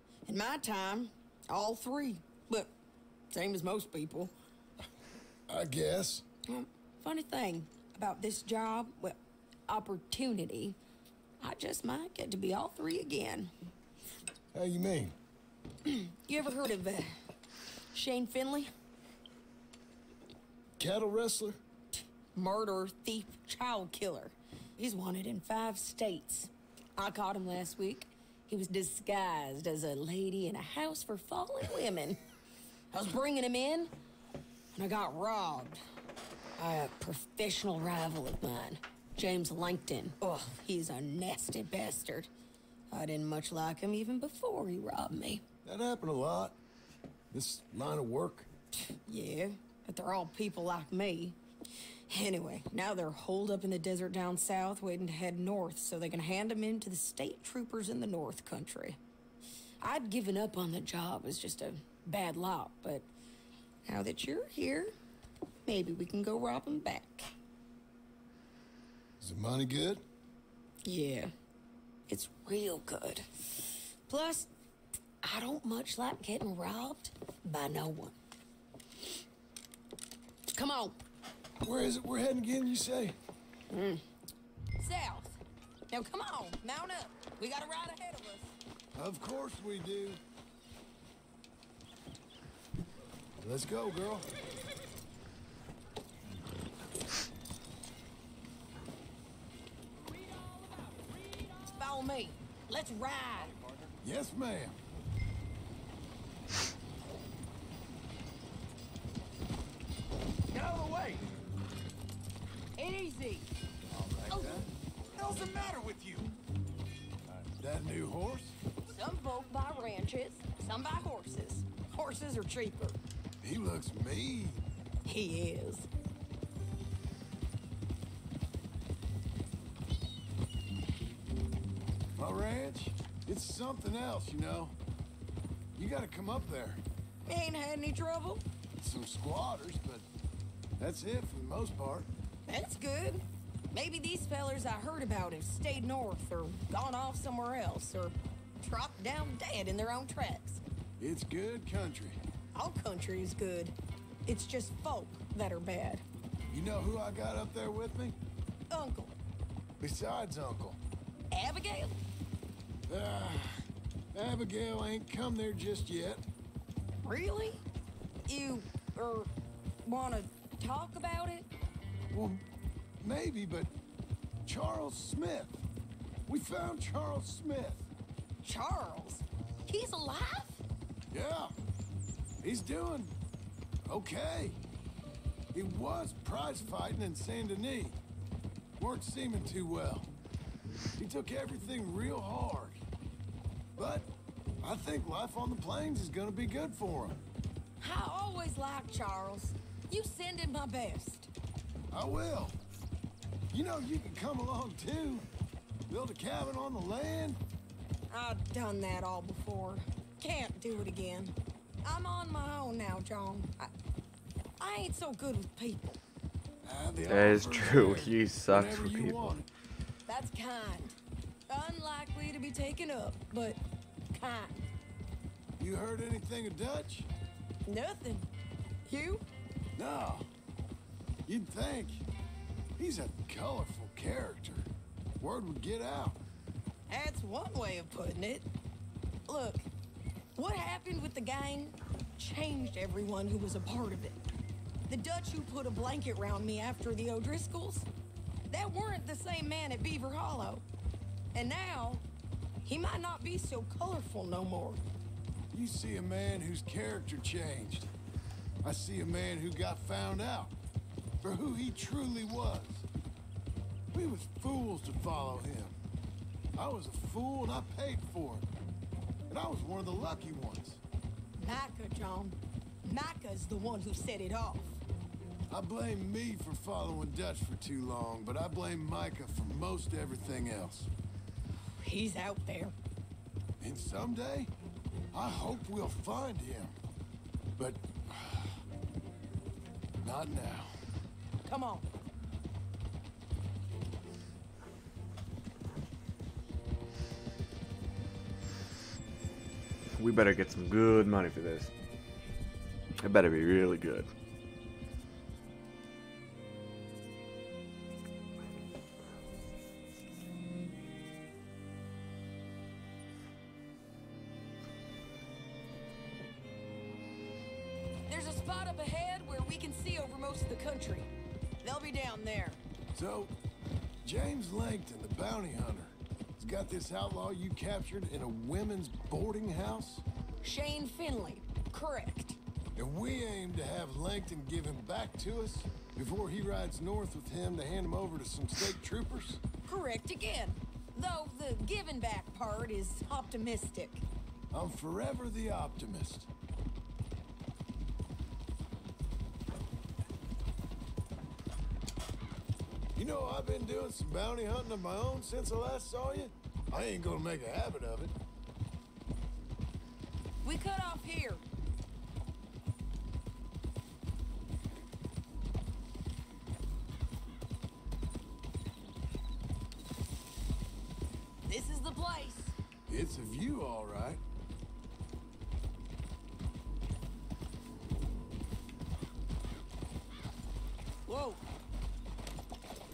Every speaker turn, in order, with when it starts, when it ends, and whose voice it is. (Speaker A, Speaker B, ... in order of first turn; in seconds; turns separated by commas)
Speaker A: 0.2-2.7, Speaker A: 3.3-4.3, Speaker B: 5.5-6.2, Speaker A: 6.5-10.8, Speaker A: 11.4-13.5, Speaker B: 14.5-15.2, Speaker A: 15.8-17.1, Speaker A: 17.9-18.7, Speaker B: 20.8-21.6, Speaker A: 21.9-32.2, Speaker A: 32.9-33.9, Speaker A: 34.7-35.8, Speaker A: 36.6-42.3, Speaker A: 42.9-45.4, Speaker B: 45.6-46.6, Speaker B: 47.3-48.5, Speaker A: 49.0-51.4, Speaker A: 52.1-59.0, Speaker A: 59.8-63.1, Speaker A: 63.9-64.9, Speaker A: 65.7-67.3, Speaker B: 69.2-70.0, Speaker A: 70.8-71.3, Speaker A: 72.1-73.3, Speaker A: 74.1-74.5, Speaker A: 75.2-78.1, Speaker A: 80.5-81.0, Speaker B: 81.6-83.2, Speaker A: 83.7-84.0, Speaker A: 84.8-85.4, Speaker A: 85.9-88.5, Speaker B: 88.9-90.2, Speaker B: 93.4-94.3, Speaker A: 100.3-103.5, Speaker B: 104.0-104.8, Speaker C: 110.5-111.2, Speaker A: 112.8-113.5, Speaker B: 114.0-114.7, Speaker C: 114.3-114.6, Speaker C: 115.2-116.3, Speaker B: 117.6-118.6, Speaker A: 118.9-123.0, Speaker B: 123.4-124.6, Speaker A: 125.0-125.9, Speaker B: 132.2-134.7, Speaker B: 135.8-136.8, Speaker A: 137.2-138.4, Speaker B: 138.8-140.1, Speaker B: 140.8-142.1, Speaker A: 142.5-150.6, Speaker B: 151.0-152.2, Speaker A: 152.5-153.7, Speaker A: 154.2-156.0, Speaker B: 156.5-158.2, Speaker A: 158.7-159.2, Speaker B: 159.8-160.8, Speaker A: 161.3-161.9, Speaker B: 162.9-166.2, Speaker A: 167.0-167.6, Speaker A: 168.2-169.3, Speaker A: 169.8-171.5, Speaker B: 172.1-172.4, Speaker B: 173.0-173.7, Speaker B: 174.4-175.6, Speaker B: 176.3-177.8, Speaker A: 178.4-180.6, Speaker B: 181.1-181.5, Speaker B: 182.4-183.1, Speaker B: 183.8-184.6, Speaker B: 185.5-188.0, Speaker B: 188.8-190.1, Speaker B: 191.0-192.8, Speaker B: 193.8-194.1, Speaker B: 194.6-197.2, Speaker A: 197.8-201.3, Speaker B: 201.9-202.6, Speaker B: 203.5-205.3, Speaker B: 205.9-207.4, Speaker A: 208.1-213.7, Speaker A: 214.6-216.0, Speaker B: 216.6-219.4, Speaker D: 217.1-219.4, Speaker A: 220.1-221.0, Speaker A: 221.5-223.6, Speaker A: 224.1-224.6, Speaker B: 225.6-227.1, Speaker A: 227.7-228.3, Speaker A: 228.8-229.2, Speaker B: 229.8-230.3, Speaker B: 231.2-232.0, Speaker B: 232.8-234.7, Speaker B: 235.2-236.2, Speaker A: 236.9-238.5, Speaker A: 239.3-239.7, Speaker A: 240.3-244.2, Speaker A: 244.9-247.9, Speaker A: 248.5-250.6, Speaker A: 251.3-252.0, Speaker A: 252.6-254.8, Speaker B: 255.5-257.9, Speaker B: 258.6-260.5, Speaker B: 261.2-262.9, Speaker B: 263.9-265.8, Speaker B: 266.5-268.4, Speaker B: 269.3-270.8, Speaker A: 271.4-274.8, Speaker B: 275.5-280.9, Speaker A: 281.8-282.7, Speaker B: 283.6-284.5, Speaker B: 285.1-286.7, Speaker B: 287.6-288.5, Speaker B: 290.0-290.8, Speaker A: 291.4-291.9, Speaker D: 300.0-301.7, Speaker D: 303.0-304.1, Speaker A: 318.1-321.1, Speaker A: 321.6-322.6, Speaker B: 322.9-323.3, Speaker B: 324.0-330.0, Speaker A: 330.4-332.4, Speaker B: 332.8-339.4, Speaker A: 339.6-344.0, Speaker B: 344.5-346.3, Speaker B: 352.9-358.1, Speaker A: 360.4-361.4, Speaker A: 371.4-372.5, Speaker B: 372.9-374.2, Speaker A: 381.1-381.4